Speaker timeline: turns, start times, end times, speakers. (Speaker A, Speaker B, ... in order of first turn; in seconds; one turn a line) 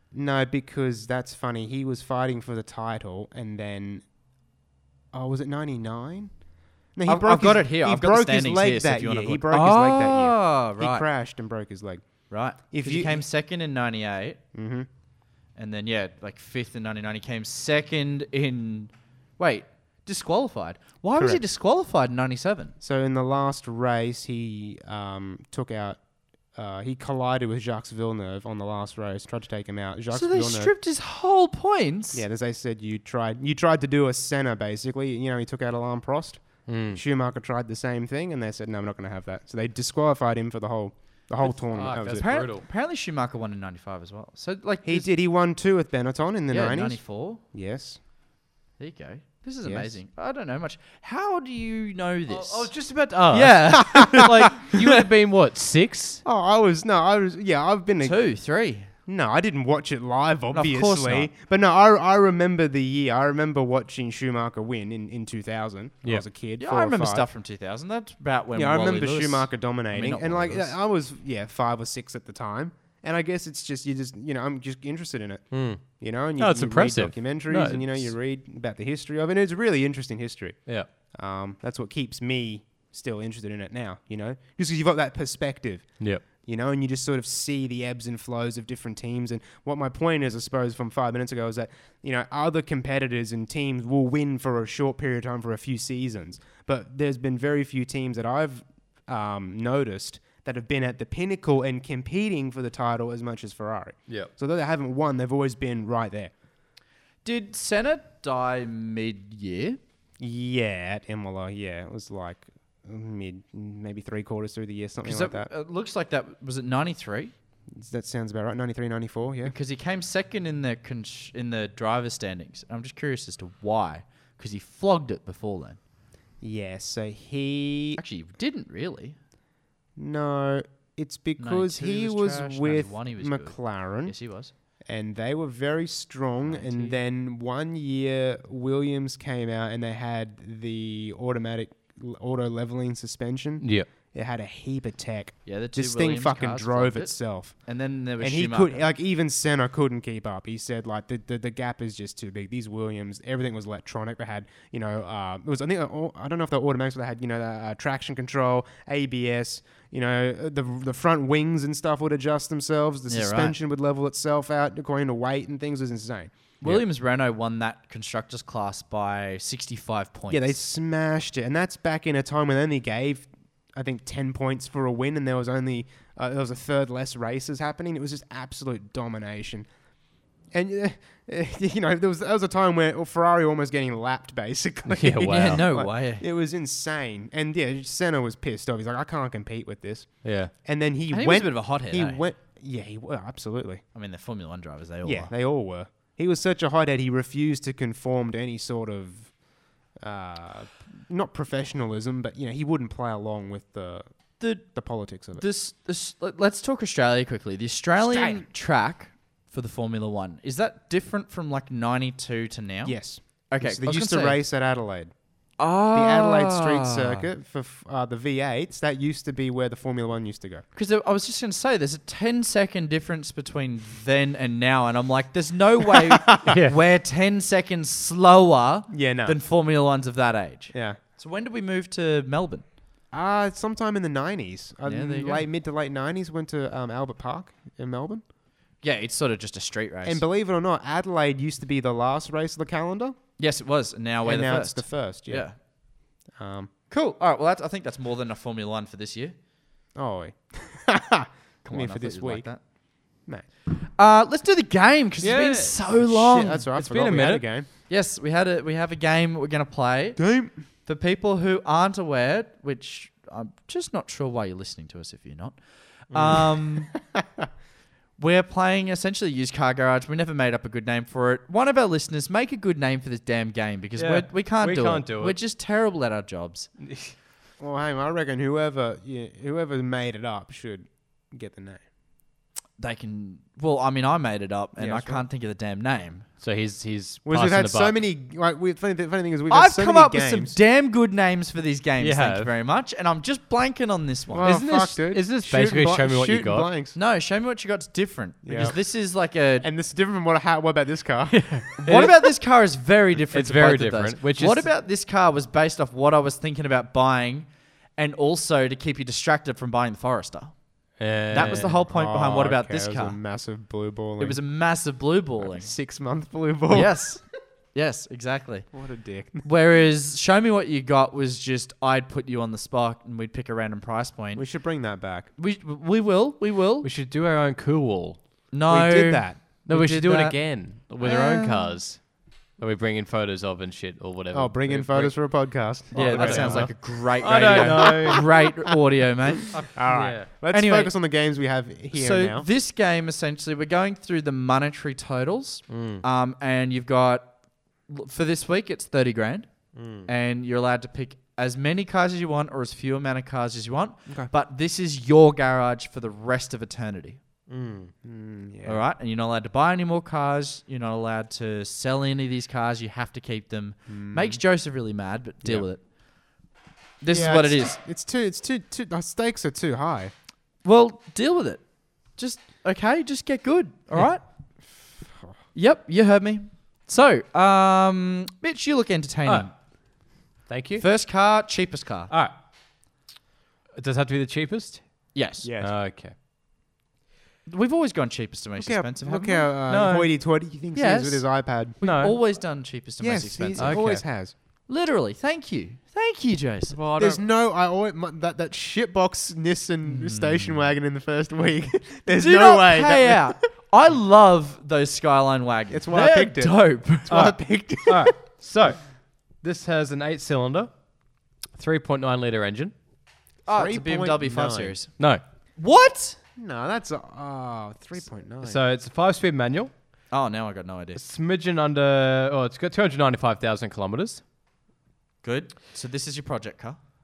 Speaker A: 0.1-4.0
Speaker A: 5.1-6.3
Speaker A: 6.9-13.2
Speaker B: 7.1-11.1
Speaker B: 12.3-14.4
Speaker A: 14.5-14.9
Speaker B: 15.6-22.8
Speaker A: 21.2-21.4
Speaker A: 22.8-26.0
Speaker A: 26.5-30.7
Speaker B: 30.1-32.2
Speaker A: 32.1-42.3
Speaker C: 36.7-37.0
Speaker C: 41.4-42.6
Speaker B: 42.1-45.1
Speaker A: 44.8-48.0
Speaker B: 46.5-47.4
Speaker B: 48.8-52.7
Speaker A: 49.6-49.9
Speaker C: 52.3-56.2
Speaker B: 53.3-55.0
Speaker A: 53.9-54.4
Speaker A: 56.2-58.2
Speaker B: 58.0-58.9
Speaker A: 59.1-67.3
Speaker B: 60.5-61.3
Speaker B: 66.6-70.7
Speaker A: 68.5-80.6
Speaker C: 75.5-75.8
Speaker C: 76.4-78.1
Speaker A: 81.1-106.3
Speaker B: 107.2-109.8
Speaker A: 110.2-115.5
Speaker B: 115.0-117.3
Speaker A: 117.7-119.5
Speaker B: 119.4-125.8
Speaker A: 126.4-128.0
Speaker B: 128.0-129.2
Speaker A: 130.0-134.2
Speaker B: 131.4-134.5
Speaker A: 134.9-147.6
Speaker C: 143.6-143.9
Speaker B: 145.5-148.8
Speaker A: 148.2-166.3
Speaker B: 163.1-163.6
Speaker B: 166.6-170.6
Speaker A: 170.3-179.7
Speaker A: 180.5-193.8
Speaker C: 184.9-185.6
Speaker B: 185.2-186.2
Speaker C: 190.2-190.5
Speaker B: 191.1-192.2
Speaker B: 193.9-195.3
Speaker A: 195.0-199.4
Speaker A: 200.0-204.1
Speaker B: 204.4-204.7
Speaker A: 204.6-205.4
Speaker B: 205.3-214.4
Speaker A: 208.0-208.4
Speaker A: 212.8-215.1
Speaker B: 215.6-217.3
Speaker A: 215.9-220.6
Speaker B: 220.7-232.7
Speaker A: 225.9-226.5
Speaker C: 226.4-226.8
Speaker A: 228.9-229.4
Speaker A: 230.7-231.0
Speaker A: 233.1-238.2
Speaker B: 234.9-235.4
Speaker B: 238.8-240.2
Speaker A: 240.0-243.2
Speaker B: 243.4-245.6
Speaker A: 244.2-245.5
Speaker A: 246.3-246.7
Speaker B: 246.9-249.3
Speaker A: 249.9-252.5
Speaker B: 251.6-252.6
Speaker B: 253.8-256.7
Speaker C: 255.2-255.8
Speaker A: 256.0-257.7
Speaker C: 256.8-257.4
Speaker B: 257.9-260.2
Speaker A: 260.2-260.6
Speaker B: 260.8-266.9
Speaker A: 266.1-267.5
Speaker B: 268.2-276.7
Speaker C: 274.0-275.4
Speaker C: 276.8-277.1
Speaker A: 277.6-281.8
Speaker B: 282.8-286.3
Speaker A: 284.8-285.2
Speaker C: 286.4-288.0
Speaker A: 287.2-290.6
Speaker B: 289.5-294.6
Speaker C: 292.0-292.5
Speaker A: 294.3-297.0
Speaker C: 294.4-296.7
Speaker B: 296.9-299.7
Speaker A: 298.4-298.8
Speaker A: 299.6-301.5
Speaker C: 301.3-302.3
Speaker B: 301.8-310.6
Speaker C: 303.3-304.7
Speaker C: 311.0-311.8
Speaker B: 311.3-313.2
Speaker A: 311.3-314.4
Speaker B: 314.2-315.7
Speaker A: 315.4-317.2
Speaker B: 316.7-318.7
Speaker A: 318.7-319.5
Speaker B: 319.4-324.4
Speaker A: 324.4-325.3
Speaker B: 325.4-326.9
Speaker C: 326.8-328.2
Speaker B: 328.5-330.4
Speaker A: 328.7-329.4
Speaker C: 329.7-332.1
Speaker B: 331.0-331.6
Speaker C: 332.6-335.2
Speaker A: 334.3-336.7
Speaker C: 335.9-338.3
Speaker B: 335.9-339.7
Speaker A: 337.3-338.2
Speaker C: 339.6-340.3
Speaker A: 339.7-342.5
Speaker B: 340.5-340.9
Speaker B: 341.9-349.5
Speaker C: 345.7-346.0
Speaker C: 349.8-350.1
Speaker B: 350.0-357.2
Speaker C: 357.5-357.9
Speaker A: 358.0-358.8
Speaker B: 358.6-365.8
Speaker A: 363.9-364.4
Speaker B: 367.0-367.8
Speaker A: 367.1-370.1
Speaker B: 370.6-374.2
Speaker A: 375.0-375.4
Speaker B: 375.5-379.5
Speaker C: 380.5-380.9
Speaker B: 380.8-382.1
Speaker C: 383.8-384.8
Speaker B: 385.1-385.5
Speaker A: 385.4-385.7
Speaker C: 385.6-386.1
Speaker B: 387.5-389.5
Speaker A: 388.6-391.8
Speaker C: 389.7-390.1
Speaker B: 390.7-393.8
Speaker C: 391.8-392.2
Speaker A: 393.0-394.3
Speaker C: 393.6-394.0
Speaker B: 394.7-397.2
Speaker A: 396.9-403.4
Speaker B: 399.9-400.7
Speaker B: 402.1-407.2
Speaker A: 405.7-408.1
Speaker C: 407.1-408.8
Speaker C: 409.4-410.7
Speaker C: 411.6-412.7
Speaker B: 413.5-414.9
Speaker A: 413.5-414.7
Speaker B: 415.6-416.2
Speaker A: 416.4-418.6
Speaker C: 418.4-419.7
Speaker B: 420.1-421.0
Speaker C: 421.0-424.2
Speaker B: 425.2-426.8